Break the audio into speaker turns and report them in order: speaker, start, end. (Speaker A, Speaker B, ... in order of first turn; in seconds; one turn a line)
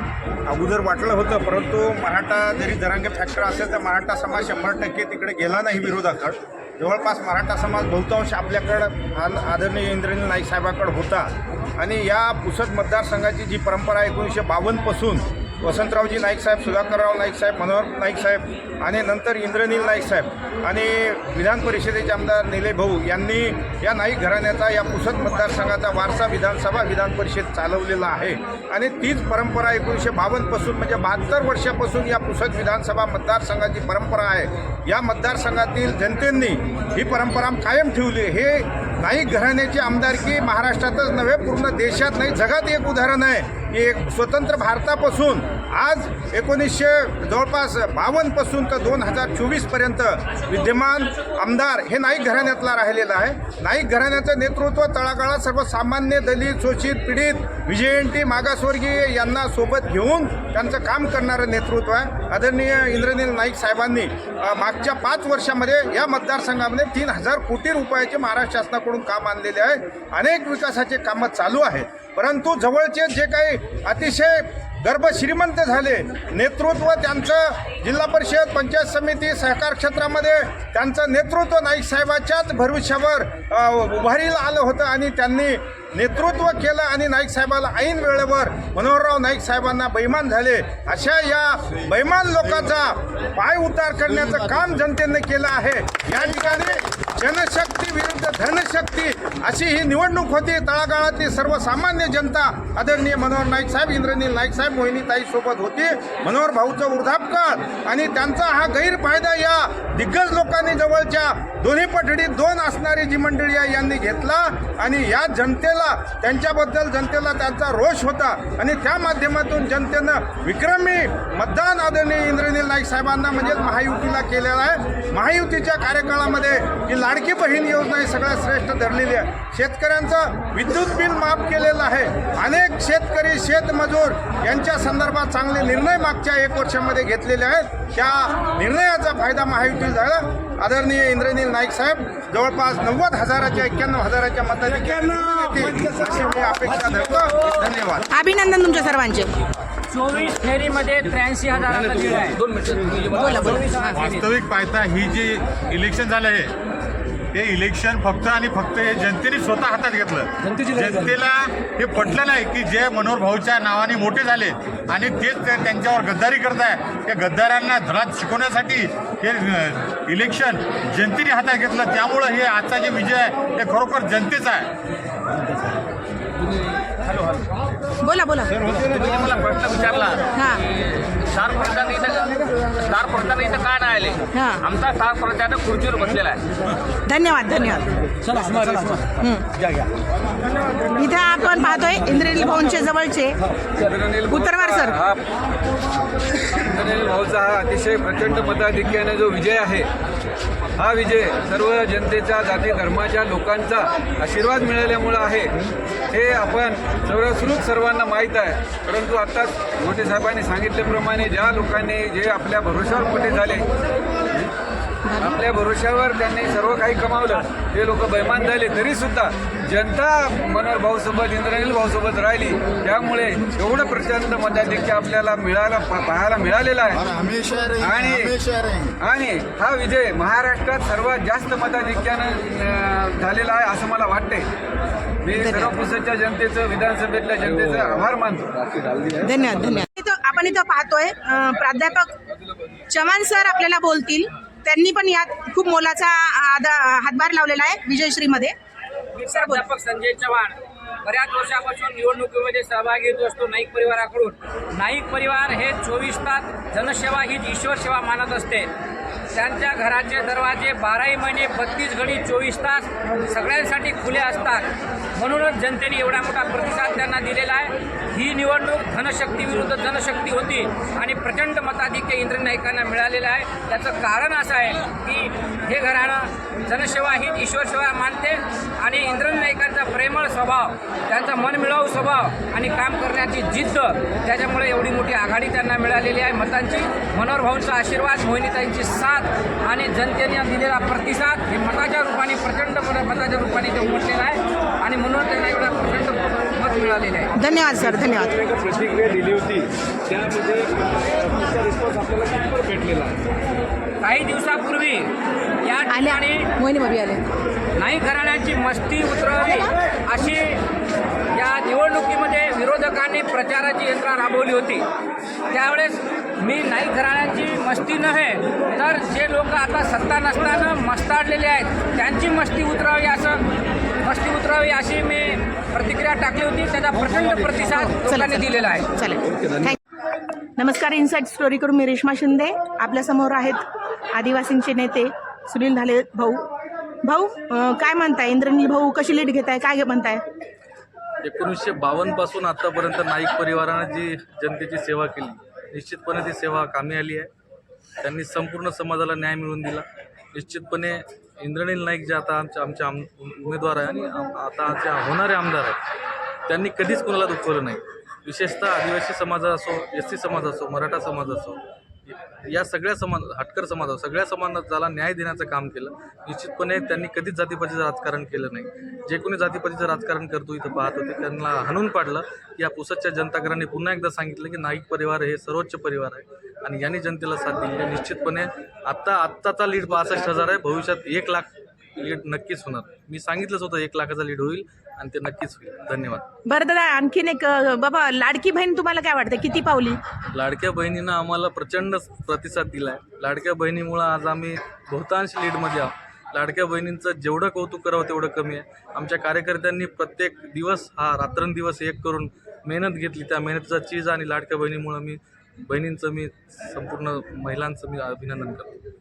Speaker A: 0.5-148.0
Speaker B: 148.1-149.3
Speaker C: 149.9-154.2
Speaker B: 153.1-153.9
Speaker D: 153.4-156.5
Speaker D: 157.3-174.7
Speaker B: 178.0-178.7
Speaker E: 178.7-180.2
Speaker B: 180.3-180.6
Speaker E: 181.2-186.4
Speaker B: 184.3-184.7
Speaker B: 187.1-187.8
Speaker B: 189.1-189.5
Speaker B: 190.9-193.4
Speaker F: 193.7-195.2
Speaker B: 194.3-195.0
Speaker F: 196.5-199.9
Speaker F: 200.8-205.6
Speaker F: 206.1-213.7
Speaker F: 215.1-228.5
Speaker F: 229.0-234.5
Speaker F: 235.2-239.8
Speaker B: 235.3-235.7
Speaker B: 239.2-242.1
Speaker B: 242.9-248.5
Speaker C: 249.2-258.7
Speaker B: 249.3-249.6
Speaker C: 259.3-297.3
Speaker B: 297.4-298.4
Speaker F: 298.5-300.5
Speaker F: 301.4-303.1
Speaker C: 304.0-305.1
Speaker C: 305.6-306.5
Speaker B: 305.9-307.2
Speaker C: 307.8-310.6
Speaker C: 311.3-314.9
Speaker C: 315.5-323.4
Speaker C: 324.0-328.9
Speaker B: 327.8-329.8
Speaker B: 330.6-333.6
Speaker B: 334.1-336.4
Speaker B: 337.0-340.2
Speaker G: 341.2-347.3
Speaker G: 348.0-355.8
Speaker G: 356.5-361.6
Speaker G: 362.4-386.3
Speaker B: 386.5-390.0
Speaker G: 390.3-408.7